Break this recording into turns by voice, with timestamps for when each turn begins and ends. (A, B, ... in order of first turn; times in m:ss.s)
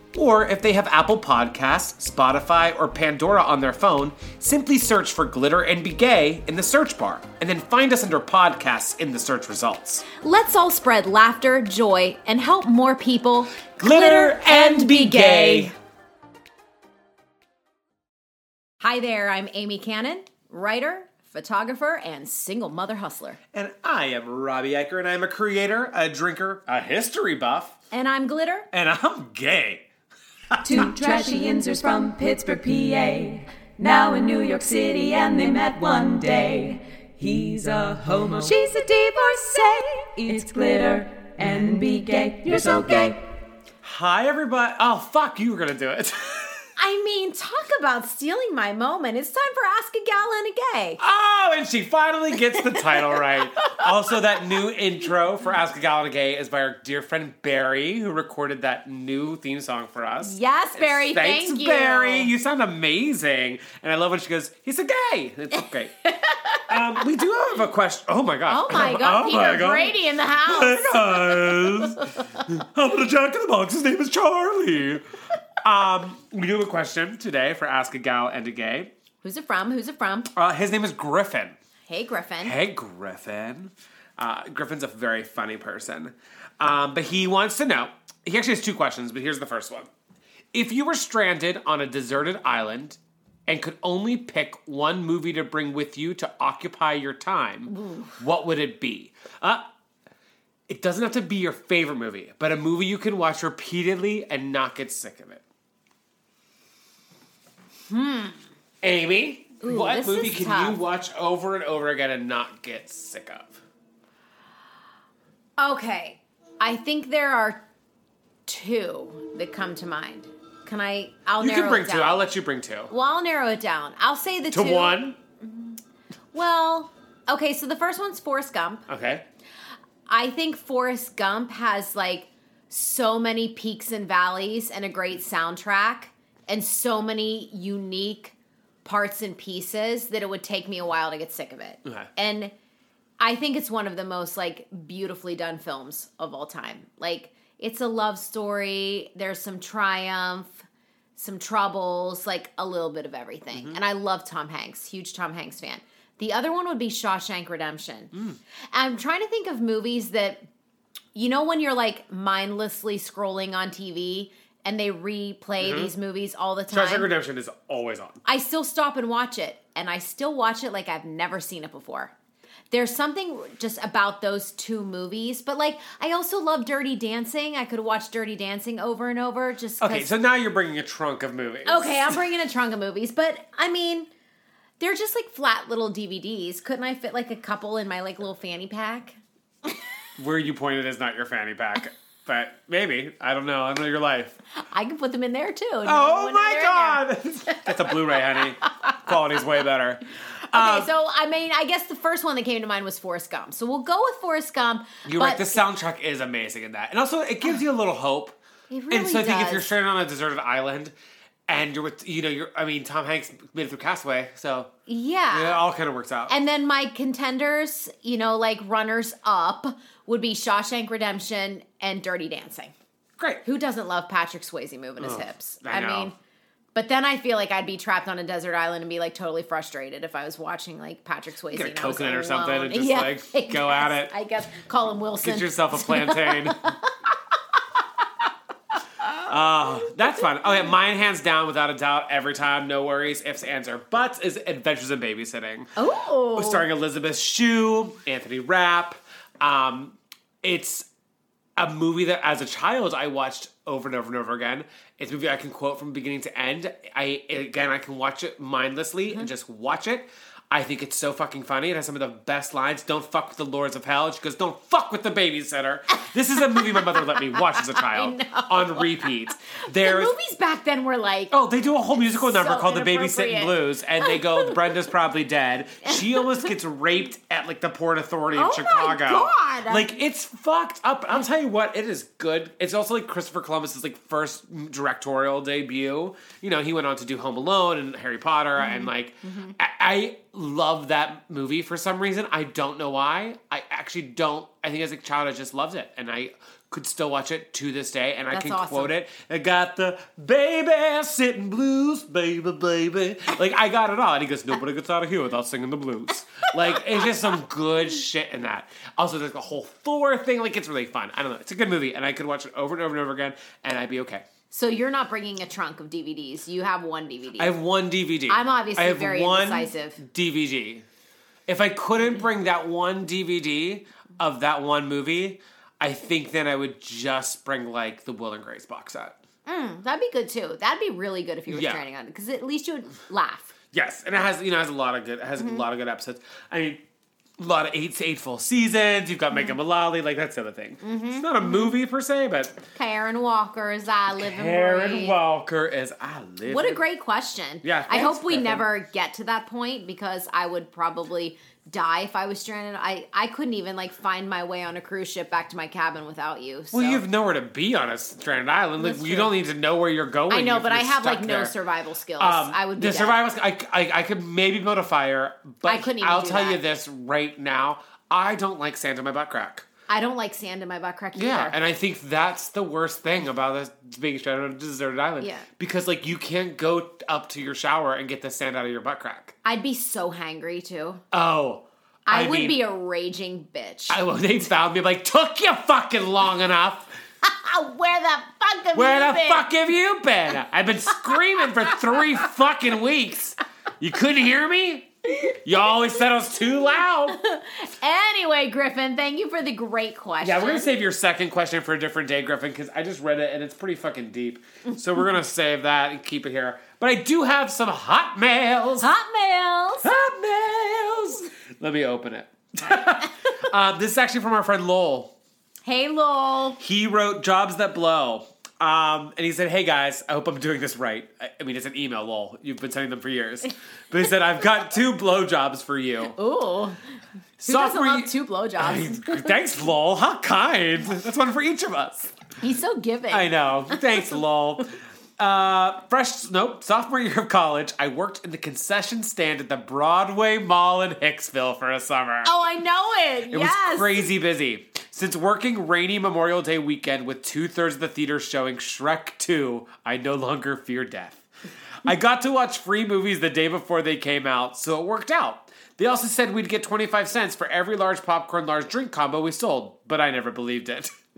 0:00.1-0:10.0 A
0:10.2-0:15.7 B
0:13.8-0:15.7 A
0:18.8-0:23.4 B
0:23.5-0:27.8 A
0:27.9-0:28.7 B
0:28.7-0:29.9 A
0:30.5-0:30.8 A
0:30.6-0:38.5 C
0:38.4-0:40.1 B
0:39.5-0:43.2 C
0:43.8-0:46.6 A
0:46.8-0:51.0 B
0:51.0-1:06.0 A
0:52.9-0:53.8 B
1:00.2-1:02.3 B
1:06.1-1:07.0 B
1:06.7-1:15.1 A
1:08.5-1:12.4 B
1:15.6-1:18.9 A
1:19.2-1:20.3 B
1:20.3-1:21.6 A
1:21.9-1:22.6 B
1:22.4-1:29.9 A
1:30.5-1:39.6 A
1:37.7-1:38.2 B
1:40.7-1:45.4 A
1:47.9-1:48.4 B
1:48.8-1:53.6 A
1:49.6-1:50.8 B
1:55.6-1:57.6 B
1:58.5-2:02.3 B
2:01.4-2:02.9 A
2:02.9-2:05.7 B
2:04.5-2:05.2 A
2:06.3-2:08.9 B
2:08.9-2:09.2 A
2:10.1-2:22.5 B
2:23.2-2:30.6 B
2:31.2-2:38.1 B
2:33.5-2:33.8 A
2:38.1-2:38.4 A
2:38.7-2:40.5 B
2:41.2-2:47.1 B
2:45.6-2:45.9 A
2:46.7-2:48.2 A
2:48.2-2:52.1 B
2:52.7-3:00.1 B
2:59.8-3:02.3 A
3:01.7-3:04.1 B
3:04.8-3:09.2 B
3:10.2-3:14.4 A
3:14.6-3:19.0 B
3:15.8-3:20.9 A
3:20.5-3:25.6 B
3:25.0-3:28.4 A
3:28.7-3:29.7 B
3:28.9-3:30.9 A
3:31.5-3:34.7 A
3:34.9-3:35.6 B
3:35.3-3:36.4 A
3:36.3-3:42.7 B
3:43.2-3:43.4 A
3:43.4-3:46.2 B
3:45.0-3:46.1 A
3:46.8-3:57.6 B
3:51.5-3:54.1 A
3:55.2-3:56.8 A
3:59.3-4:05.7 A
3:59.7-4:00.2 B
4:05.8-4:06.6 B
4:06.4-4:10.9 A
4:11.6-4:30.1 A
4:26.5-4:29.2 B
4:29.8-4:31.3 B
4:31.3-5:14.2 A
4:31.9-4:34.7 B
4:35.9-4:36.5 B
4:38.3-4:40.0 B
4:48.6-4:49.6 B
4:58.3-4:58.9 B
5:14.5-5:17.6 B
5:17.4-5:20.8 A
5:18.3-5:20.0 B
5:21.5-5:29.2 A
5:29.5-5:33.5 B
5:31.5-5:31.8 A
5:33.7-5:36.8 A
5:35.4-5:35.6 B
5:37.4-5:42.6 A
5:39.3-5:39.6 B
5:40.8-5:41.8 B
5:42.7-5:45.2 B
5:44.1-5:46.8 A
5:46.4-5:57.0 B
5:47.6-5:48.7 A
5:56.7-6:01.5 A
5:58.8-5:59.3 B
6:00.3-6:03.2 B
6:02.2-6:09.7 A
6:05.6-6:06.6 B
6:09.9-6:11.6 B
6:11.2-6:19.4 A
6:15.2-6:15.5 B
6:19.4-6:21.0 B
6:21.1-6:22.6 A
6:22.1-6:24.0 B
6:23.9-6:26.9 A
6:27.2-6:29.4 B
6:28.7-6:37.2 A
6:31.3-6:31.8 B
6:36.4-6:40.7 B
6:40.2-6:48.9 A
6:48.8-6:50.0 B
6:49.8-6:55.1 A
6:55.6-6:56.6 B
6:56.6-7:06.2 A
7:06.2-7:06.8 B
7:07.4-7:12.1 A
7:07.5-7:09.3 B
7:12.4-7:13.3 B
7:13.1-7:22.3 A
7:22.2-7:24.1 B
7:23.3-7:31.2 A
7:31.8-7:40.9 A